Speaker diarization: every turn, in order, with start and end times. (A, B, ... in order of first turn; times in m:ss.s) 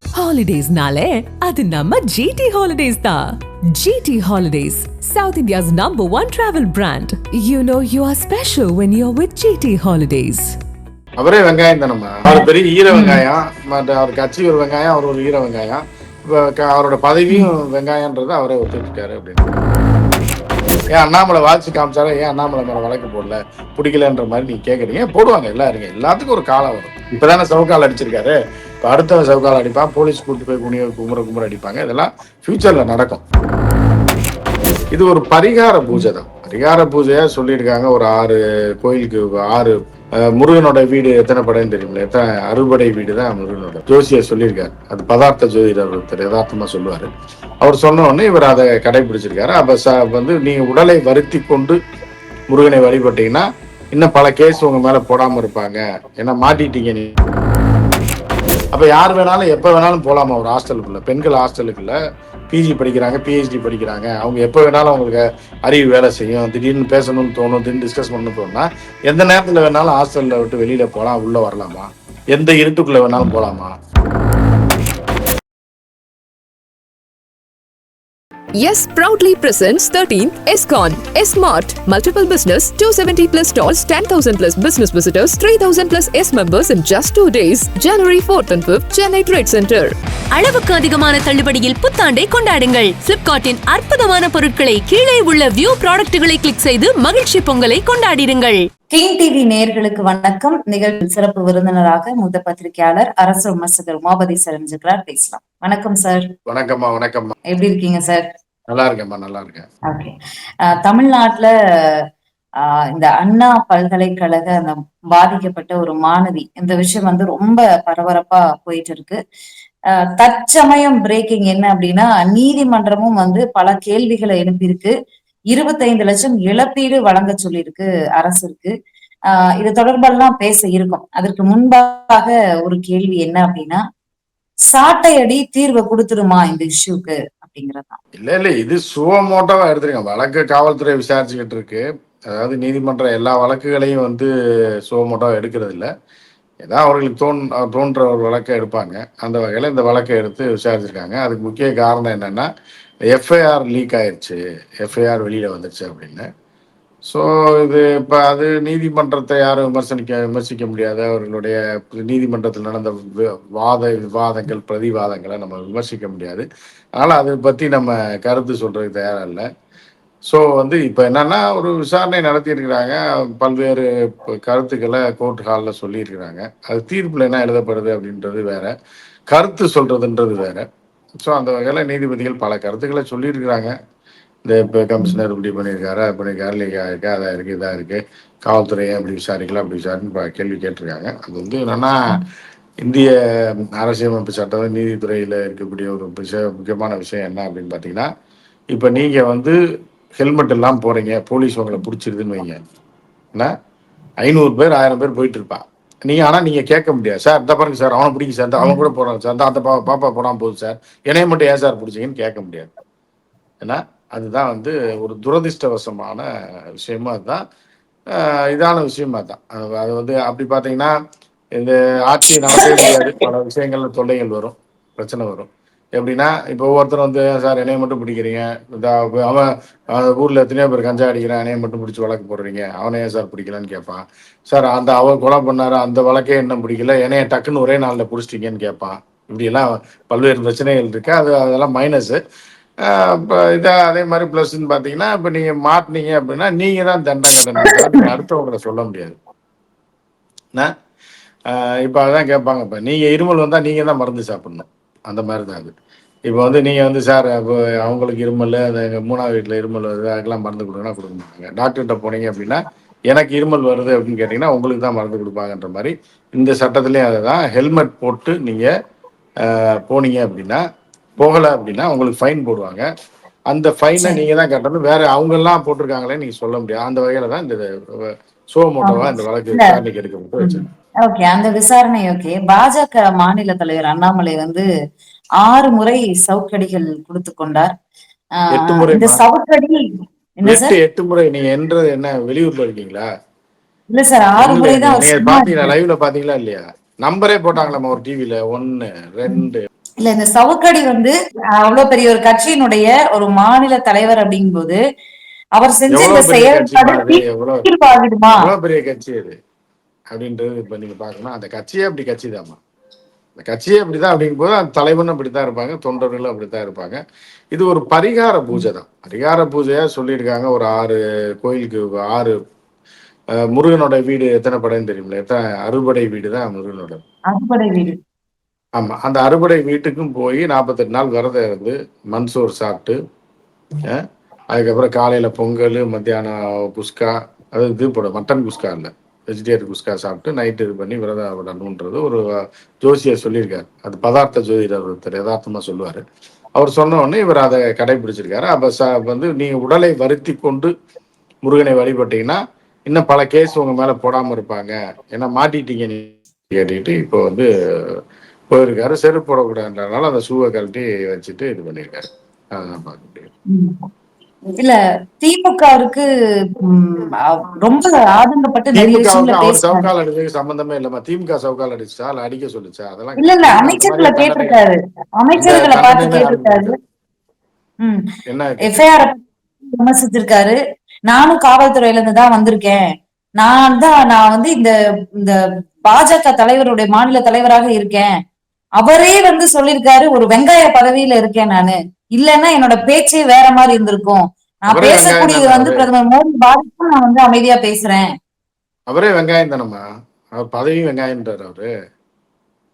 0:00.1-0:10.6 A
0:11.2-0:19.5 B
0:12.3-0:13.2 C
0:20.9-0:33.2 B
0:34.9-0:47.1 B
0:47.6-0:51.8 B
0:52.5-0:57.1 B
0:58.7-1:02.0 B
1:02.5-1:13.7 B
1:18.6-1:29.9 D
1:30.3-1:38.6 E
1:38.9-1:46.3 C
1:46.5-1:47.4 B
1:47.5-1:48.2 C
1:48.7-1:49.6 B
1:49.9-1:50.1 C
1:50.7-1:51.5 C
1:52.9-1:59.2 C
2:00.0-2:04.9 C
2:05.5-2:08.7 C
2:09.6-2:13.8 C
2:14.7-2:18.0 C
2:18.1-2:24.3 B
2:24.9-2:25.9 B
2:26.6-2:32.5 B
2:33.1-2:36.2 B
2:37.1-2:46.4 B
2:47.0-2:49.4 B
2:50.3-2:58.7 B
2:59.3-3:00.6 B
3:01.2-3:03.7 B
3:04.4-3:12.0 B
3:12.8-3:13.1 B
3:13.7-3:18.1 B
3:18.7-3:19.6 B
3:20.2-3:22.6 B
3:24.2-3:32.7 B
3:33.6-3:36.3 B
3:36.8-3:37.4 B
3:38.1-3:40.9 B
3:41.6-4:02.2 B
4:02.8-4:09.2 B
4:07.6-4:08.0 C
4:11.5-4:15.7 B
4:16.3-4:28.7 B
4:29.4-4:30.6 B
4:31.2-4:32.8 B
4:33.5-4:40.6 B
4:38.8-4:39.8 C
4:40.4-4:44.6 C
4:45.4-4:47.7 C
4:48.4-4:49.8 C
4:48.5-4:49.2 B
4:50.4-4:50.8 C
4:50.4-4:53.0 B
4:53.9-4:55.7 C
4:54.4-4:59.6 B
5:00.0-5:04.8 C
5:05.6-5:08.5 C
5:05.9-5:07.7 B
5:08.3-5:09.4 B
5:10.1-5:12.6 B
5:13.4-5:17.0 B
5:17.5-5:22.3 B
5:23.5-5:27.0 B
5:27.3-5:28.0 C
5:28.8-5:33.0 B
5:34.5-5:42.2 B
5:42.8-5:46.0 B
5:46.6-5:50.7 B
5:51.4-5:58.0 B
5:58.5-6:03.3 B
6:03.5-6:03.8 C
6:04.6-6:09.9 C
6:08.7-6:14.6 B
6:13.2-6:16.7 C
6:15.3-6:16.8 B
6:18.3-6:18.8 B
6:18.6-6:19.2 C
6:19.7-6:20.6 C
6:21.1-6:22.8 C
6:23.4-6:28.1 C
6:28.8-6:38.0 C
6:34.7-6:35.9 B
6:38.9-6:39.8 B
6:40.4-6:41.7 B